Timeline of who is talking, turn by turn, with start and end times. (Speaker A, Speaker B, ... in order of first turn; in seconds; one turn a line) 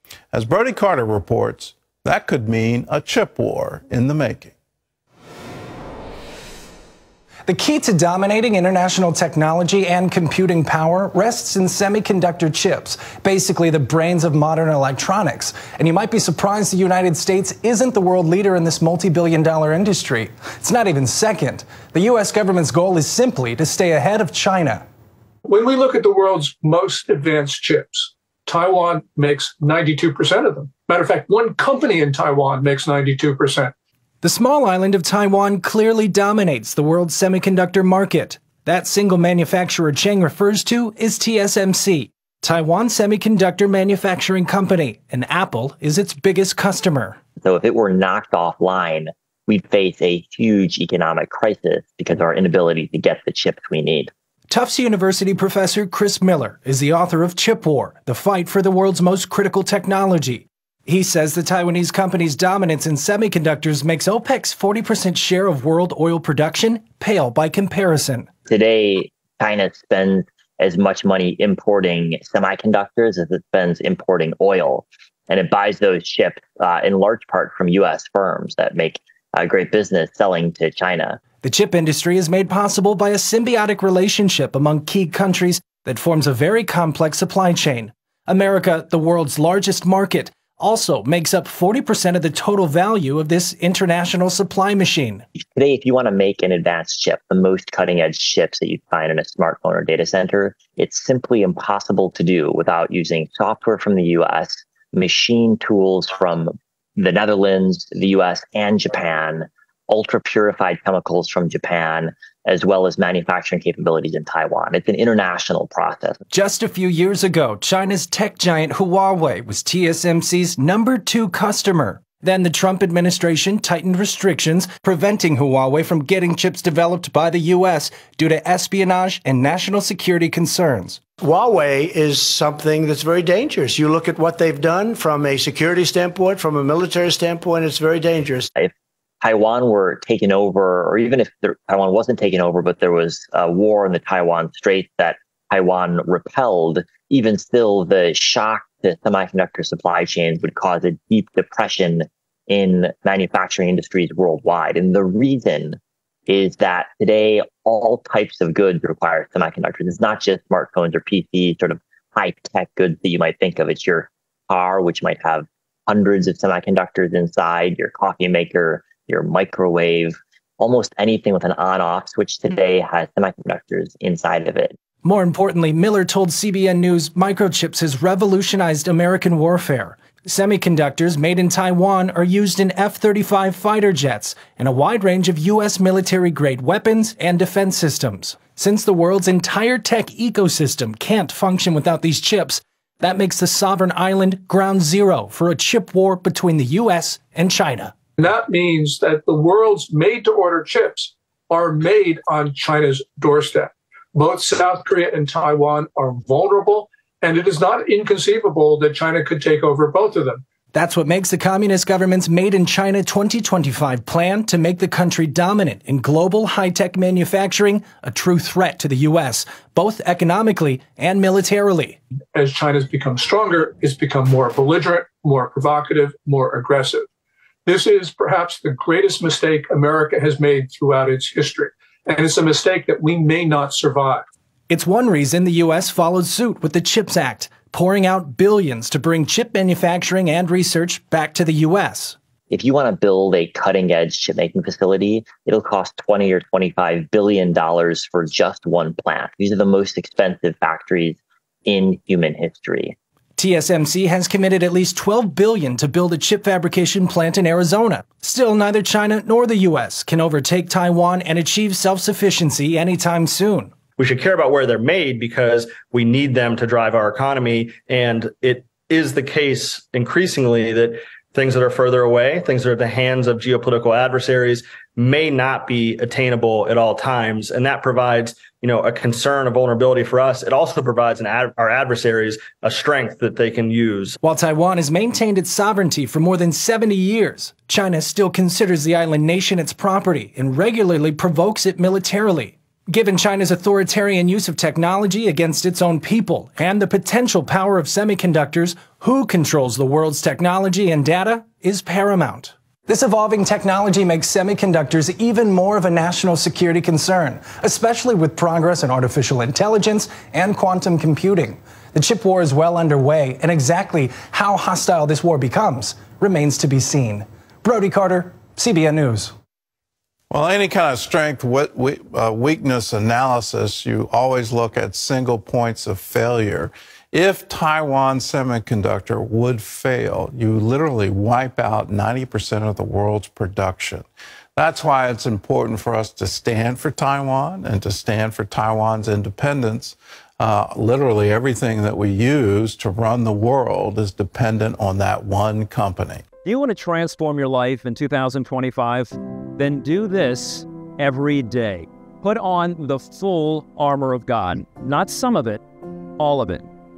Speaker A: 0.3-4.5
Speaker B: 7.5-24.8
Speaker C: 25.4-33.7
Speaker B: 34.2-47.2
Speaker D: 47.4-54.1
Speaker B: 54.5-68.3
Speaker D: 68.5-81.2
Speaker B: 81.4-95.2
Speaker D: 95.4-116.2
Speaker B: 116.3-131.0
Speaker E: 131.2-138.5
Speaker D: 139.2-155.8
Speaker D: 156.3-174.7
Speaker B: 175.0-197.9
Speaker C: 198.2-210.4
Speaker B: 210.7-222.0
Speaker C: 222.3-227.1
Speaker C: 227.7-234.2
Speaker B: 234.7-242.2
Speaker D: 242.5-252.9
Speaker B: 253.4-263.7
Speaker F: 264.0-284.2
Speaker B: 284.2-319.3
Speaker A: 320.3-346.2
Speaker G: 346.4-355.6
Speaker G: 356.2-356.7